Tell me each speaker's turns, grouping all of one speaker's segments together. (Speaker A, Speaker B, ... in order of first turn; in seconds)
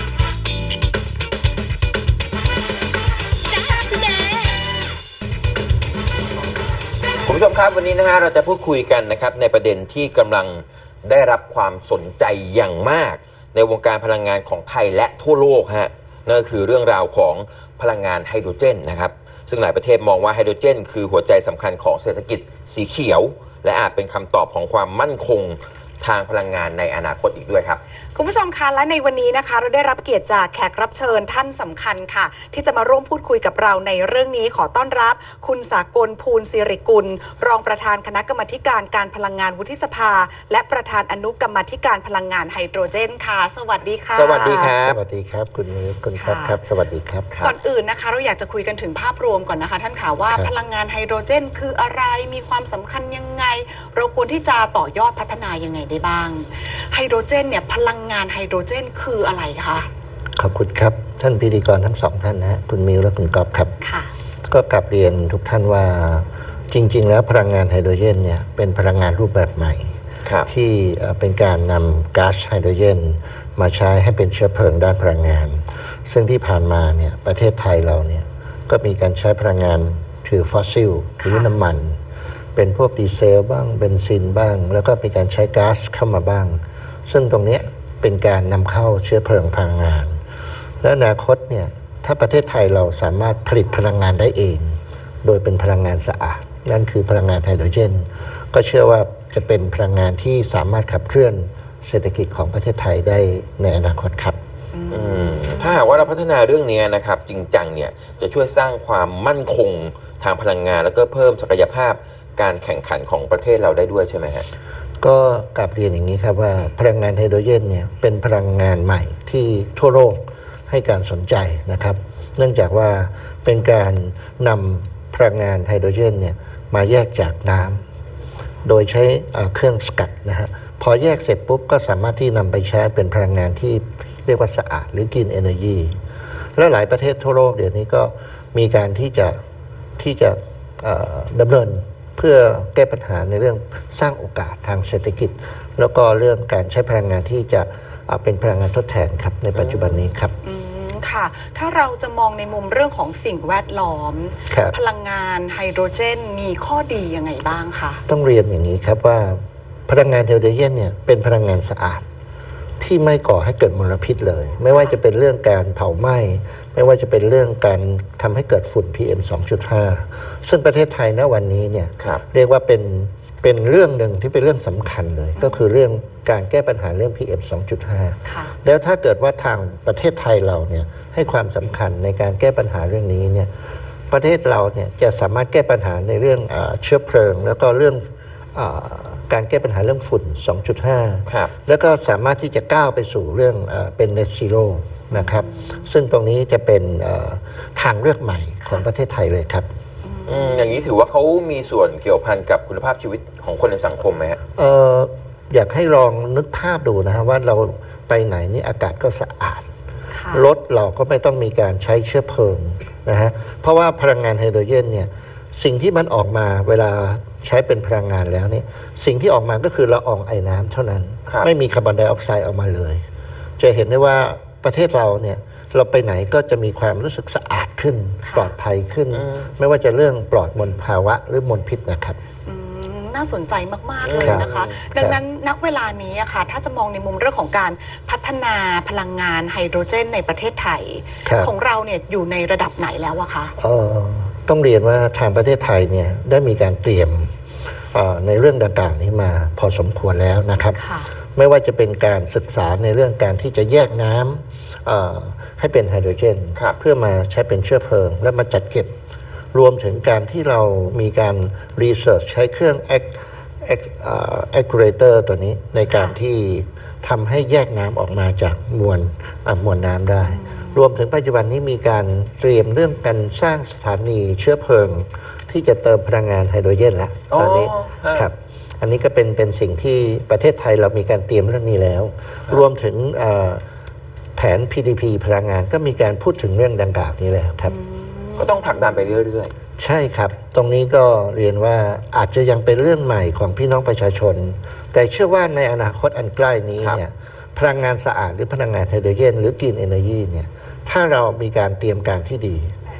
Speaker A: 7.2-27.8, 44.1-45.0, 47.3-47.5, 104.9-114.5, 149.5-150.0, 191.3-191.5, 200.2-204.4, 229.1-229.4, 234.0-234.8, 277.3-278.3, 288.4-289.5
Speaker B: 28.1-44.7, 46.2-46.6, 47.4-59.9, 63.8-64.1, 81.2-81.5, 104.7-106.1, 150.4-158.0, 175.4-175.7, 178.2-178.5, 195.1-195.8, 200.0-200.9, 210.1-210.5, 228.3-228.5, 232.4-243.5, 250.8-251.1, 265.9-266.2, 270.3-270.7, 287.6-289.1
Speaker C: 44.7-47.3, 60.4-63.7, 64.5-69.9, 70.5-82.0, 82.5-90.2, 90.8-104.4, 115.0-127.8, 128.6-136.0, 136.6-139.4, 140.0-150.3, 154.5-154.7, 158.1-162.0, 162.8-183.5, 184.1-199.7, 204.6-209.7, 210.3-223.0, 223.6-232.2, 234.2-235.2, 241.2-241.5, 243.6-247.3, 247.9-250.8, 251.3-258.9, 259.5-283.6, 284.4-287.8, 289.8-302.7